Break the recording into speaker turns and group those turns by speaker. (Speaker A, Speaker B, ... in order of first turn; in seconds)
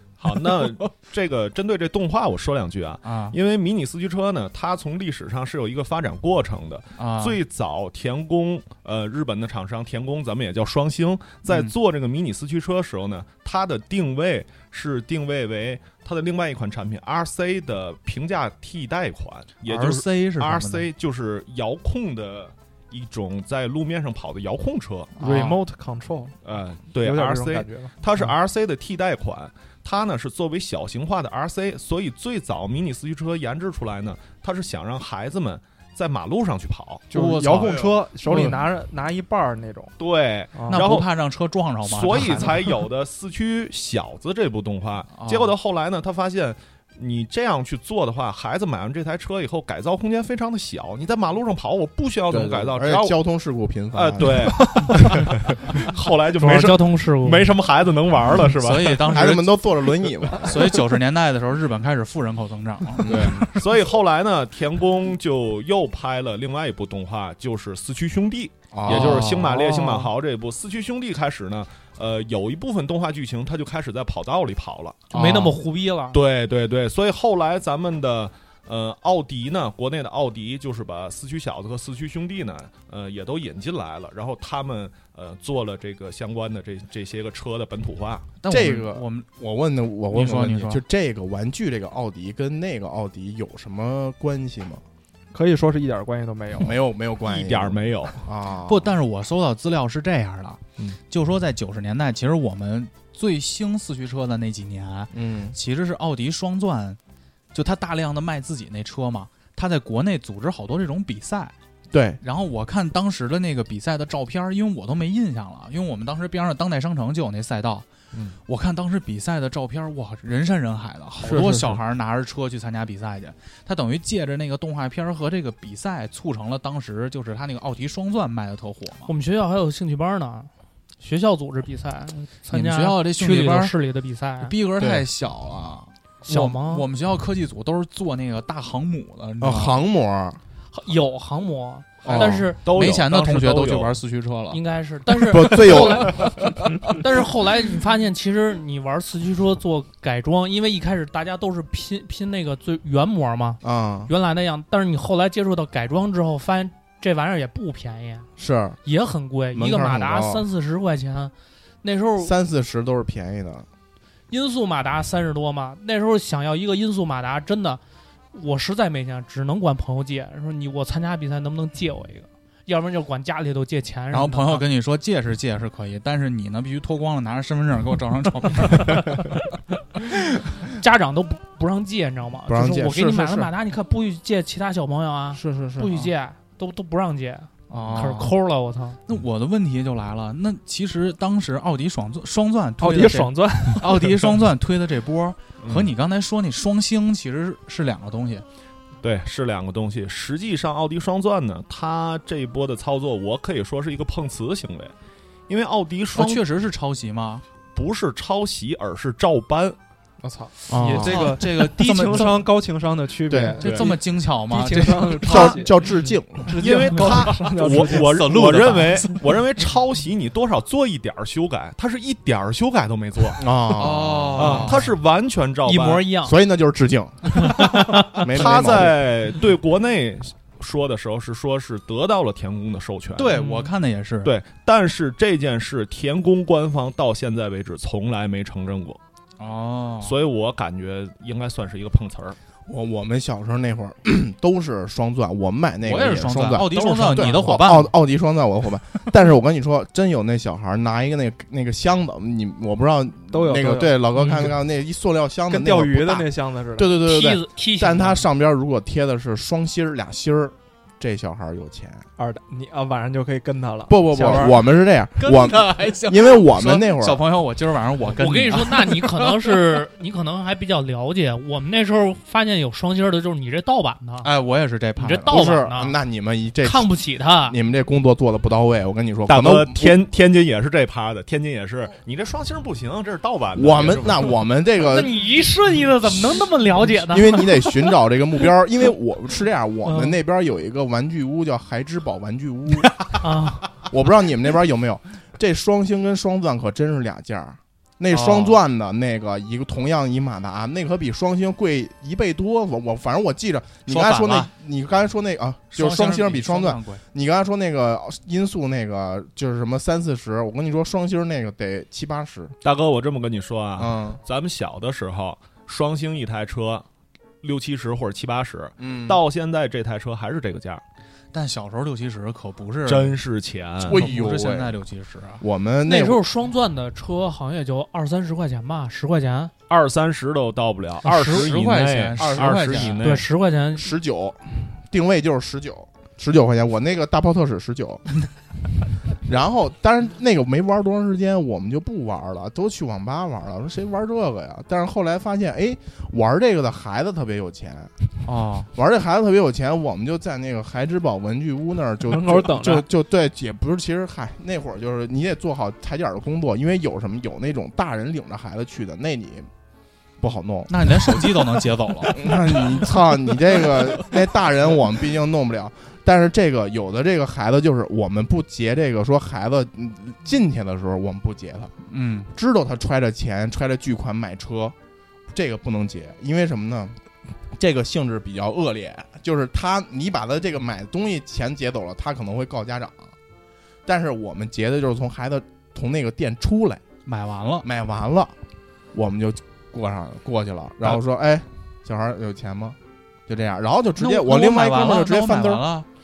Speaker A: 0.2-25.1, 26.4-37.1, 37.6-38.0, 40.0-41.1, 41.8-53.2, 53.9-59.2, 63.0-75.0, 76.1-88.3, 97.2-98.2, 142.0-143.9, 195.6-195.9, 199.0-204.9, 205.5-206.4, 207.7-209.8, 216.6-223.4, 224.4-226.1, 228.3-233.3, 234.2-239.0, 240.0-242.4, 279.3-284.3, 312.6-316.9, 317.4-320.8, 322.8-324.0, 329.7-333.3
Speaker B: 3.0-3.4, 7.0-7.4, 11.5-11.7, 19.6-20.9, 25.2-25.6, 37.1-38.6, 40.7-42.5, 45.1-45.5, 58.6-59.6, 60.4-63.2, 68.8-69.7, 75.1-75.6, 88.4-89.2, 90.1-90.8, 98.7-107.0, 107.5-111.5, 112.2-117.8, 118.5-129.1, 132.5-133.7, 134.4-139.8, 142.6-144.6, 174.1-179.3, 187.7-188.3, 189.1-198.4, 206.1-207.4, 210.7-212.5, 213.6-215.6, 217.6-219.2, 223.8-224.8, 233.2-234.3, 239.4-240.1, 245.8-247.9, 265.2-269.5, 274.2-275.3, 298.1-298.6, 303.9-304.5, 305.7-307.0, 321.3-323.1, 323.9-325.4, 331.0-333.1, 348.2-348.7, 360.7-362.7, 371.9-372.3, 387.1-387.6, 394.0-395.9
Speaker C: 25.2-26.4, 26.9-27.9, 37.1-39.9, 40.5-41.0, 95.3-96.8, 185.3-185.9, 192.8-194.3, 210.2-215.9, 216.4-218.6, 253.3-254.5, 255.5-256.9, 262.2-264.6, 352.1-352.9
Speaker D: 52.3-54.6, 59.0-60.8, 63.0-63.5, 68.7-69.3, 88.5-94.8, 96.6-98.9, 105.1-105.5, 111.9-112.2, 134.8-135.1, 139.4-140.4, 142.0-142.5, 145.2-146.3, 153.6-154.1, 158.4-158.8, 159.5-160.4, 162.2-163.7, 182.5-183.5, 210.7-211.3, 213.3-213.6, 215.2-216.6, 223.4-224.6, 226.2-227.6, 228.1-229.0, 242.7-262.1, 263.9-267.2, 275.3-276.9, 277.4-280.0, 283.5-285.1, 287.0-293.1, 293.9-312.5, 313.8-314.2, 318.8-319.2, 323.8-324.7, 325.4-326.2, 332.3-332.6, 333.7-338.1, 339.2-347.9, 348.7-359.5, 360.2-371.7, 372.3-374.7, 375.3-383.1, 383.9-386.8, 387.6-388.3, 388.9-395.7
Speaker E: 56.3-57.5, 75.1-76.2, 129.1-134.5, 136.2-136.9, 140.7-142.6, 144.5-158.3, 158.8-162.3, 164.3-167.8, 168.3-174.7, 180.7-189.0, 225.6-226.3, 227.4-228.3, 233.3-233.7, 257.0-258.2, 268.1-274.3, 275.0-275.9, 276.6-277.6, 284.8-287.7, 289.8-290.2, 293.2-293.8, 325.9-329.5, 331.0-331.5, 333.0-333.9